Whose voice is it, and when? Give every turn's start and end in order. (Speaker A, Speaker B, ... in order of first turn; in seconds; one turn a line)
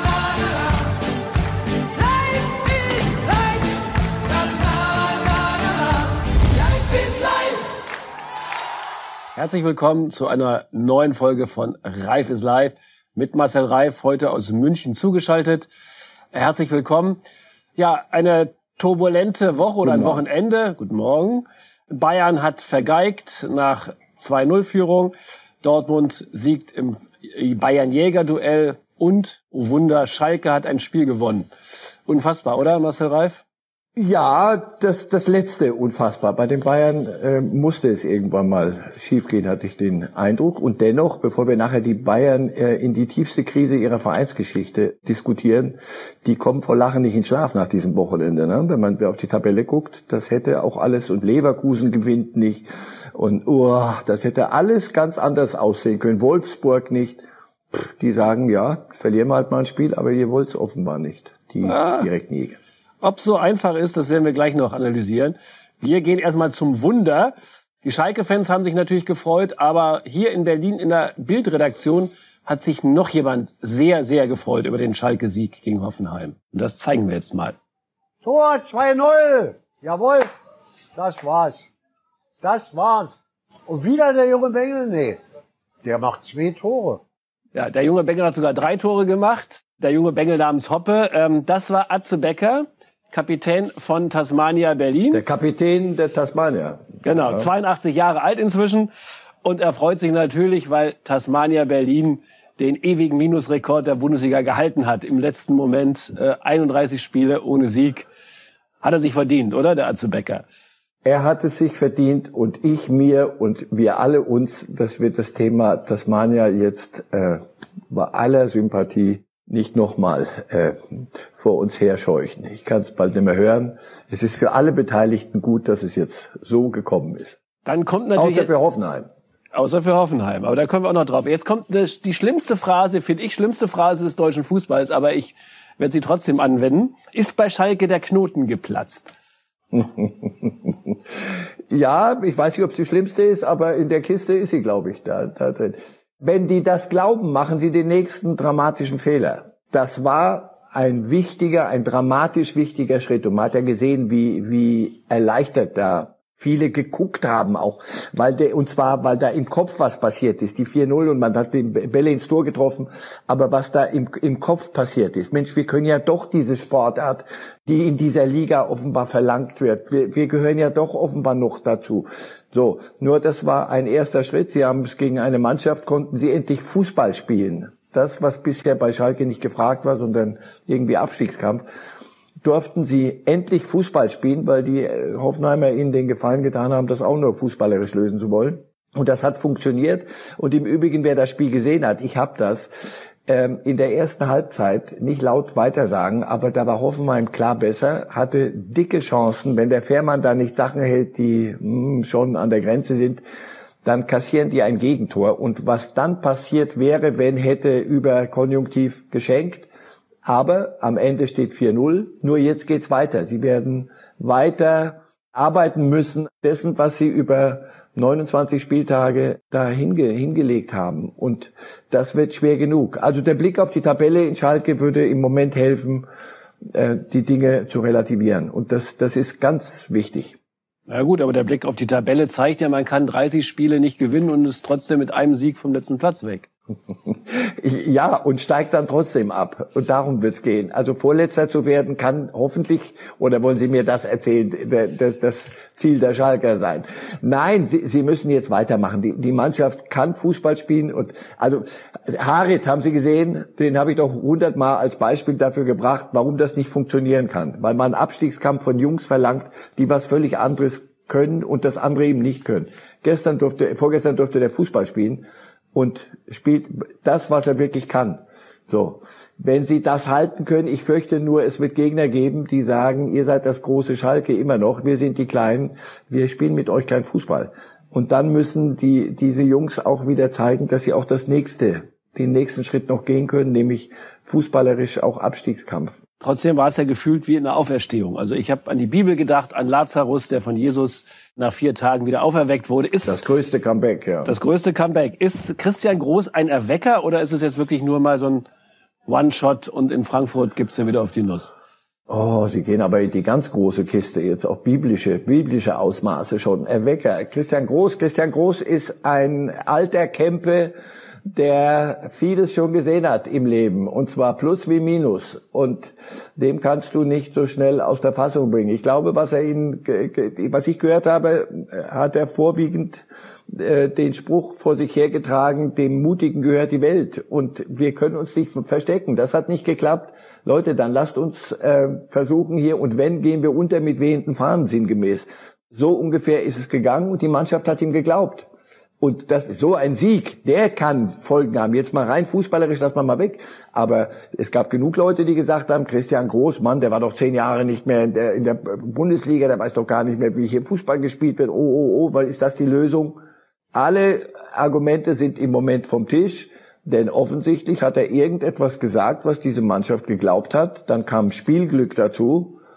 Speaker A: 2.7-3.4
Speaker A: 9.3-15.7
Speaker A: 16.3-17.2
Speaker A: 17.8-31.5
Speaker A: 32.0-33.4
Speaker B: 34.0-62.6
Speaker A: 61.6-62.1
Speaker A: 63.0-77.5
Speaker C: 78.2-80.3
Speaker C: 80.9-81.7
Speaker C: 82.4-85.2
Speaker C: 85.8-87.0
Speaker A: 87.5-95.4
Speaker B: 95.1-97.5
Speaker A: 97.0-98.9
Speaker A: 99.4-108.1
Speaker A: 108.8-110.4
Speaker B: 111.0-127.3
Speaker A: 127.6-128.5
Speaker B: 128.1-129.1
Speaker A: 129.5-139.1
Speaker B: 139.7-140.7
Speaker B: 141.7-181.7
Speaker B: 182.4-203.2
Speaker B: 203.8-209.7
Speaker B: 210.2-226.1
Speaker B: 226.7-230.3
Speaker A: 230.9-236.5
Speaker B: 237.1-286.0
Speaker A: 286.2-293.2
Speaker B: 293.0-294.3
Speaker A: 294.2-298.4
Speaker A: 299.1-301.5
Speaker B: 302.1-310.7
Speaker B: 311.3-338.5
Speaker B: 339.0-353.2
Speaker B: 353.7-362.6